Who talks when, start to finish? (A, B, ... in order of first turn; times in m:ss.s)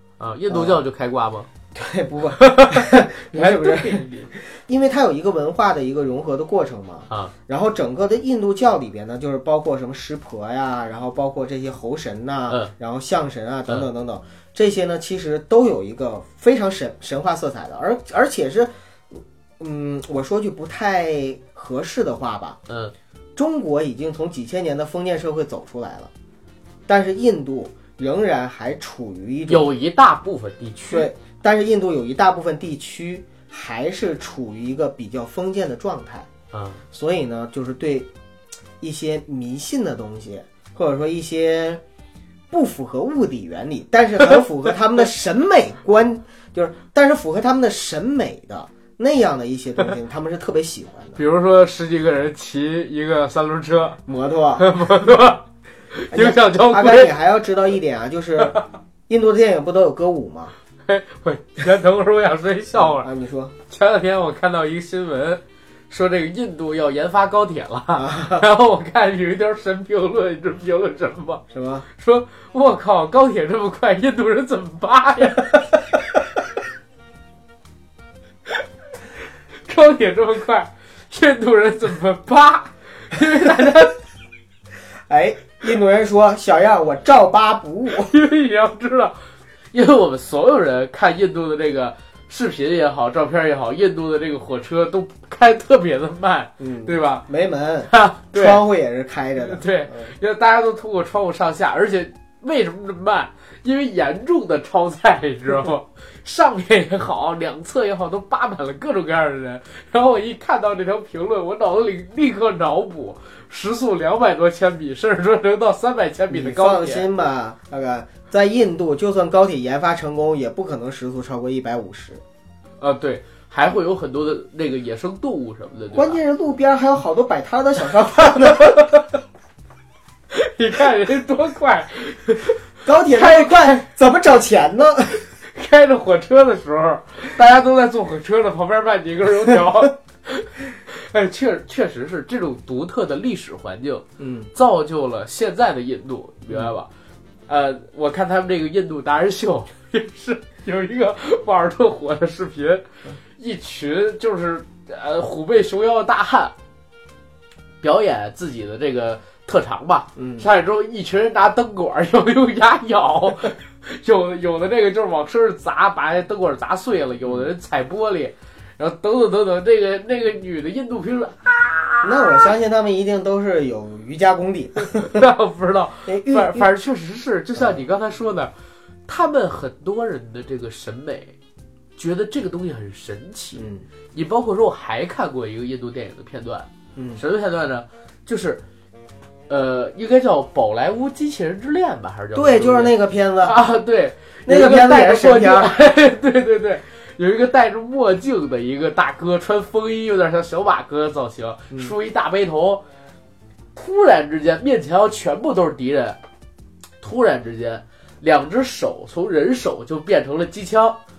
0:00.2-0:01.5 A
0:00.5-0:00.8 B
0:01.7-0:22.6 B
0:02.4-0:04.3 A
0:22.7-0:22.9 A
0:23.4-0:26.1 B
0:26.9-0:29.7 B
0:29.5-0:31.1 A
0:30.9-0:36.3 B
0:36.5-0:36.8 A
0:36.9-0:38.1 B
0:38.8-0:41.8 B
0:42.5-0:51.2 B
0:51.2-0:54.0 A
0:54.1-0:54.7 B
0:54.6-0:57.1 A
0:56.1-1:00.5 B
1:00.8-1:03.1 A
1:02.7-1:03.5 B
1:03.7-1:15.7 A
1:07.9-1:08.4 B
1:11.5-1:11.8 B
1:19.6-1:24.0 A
1:25.1-1:28.1 B
1:28.0-1:29.1 A
1:29.7-1:37.2 A
1:36.6-1:40.1 B
1:37.9-1:38.6 A
1:39.4-1:57.1 A
1:56.3-2:02.2 B
2:02.8-2:06.2 A
2:05.9-2:09.0 B
2:08.4-2:09.0 A
2:10.3-2:13.8 A
2:12.8-2:15.2 B
2:15.4-2:26.9 A
2:24.2-2:24.5 B
2:27.5-2:36.5 A
2:37.8-2:52.5 A
2:40.2-2:40.4 B
2:52.0-2:55.2 B
2:54.8-2:58.5 A
2:56.0-2:56.7 B
2:59.1-3:01.3 A
3:02.0-3:08.6 A
3:03.6-3:03.8 B
3:07.0-3:07.2 B
3:09.5-3:22.8 A
3:12.3-3:13.6 B
3:14.5-3:15.8 B
3:23.7-3:26.2 A
3:27.0-3:31.0 A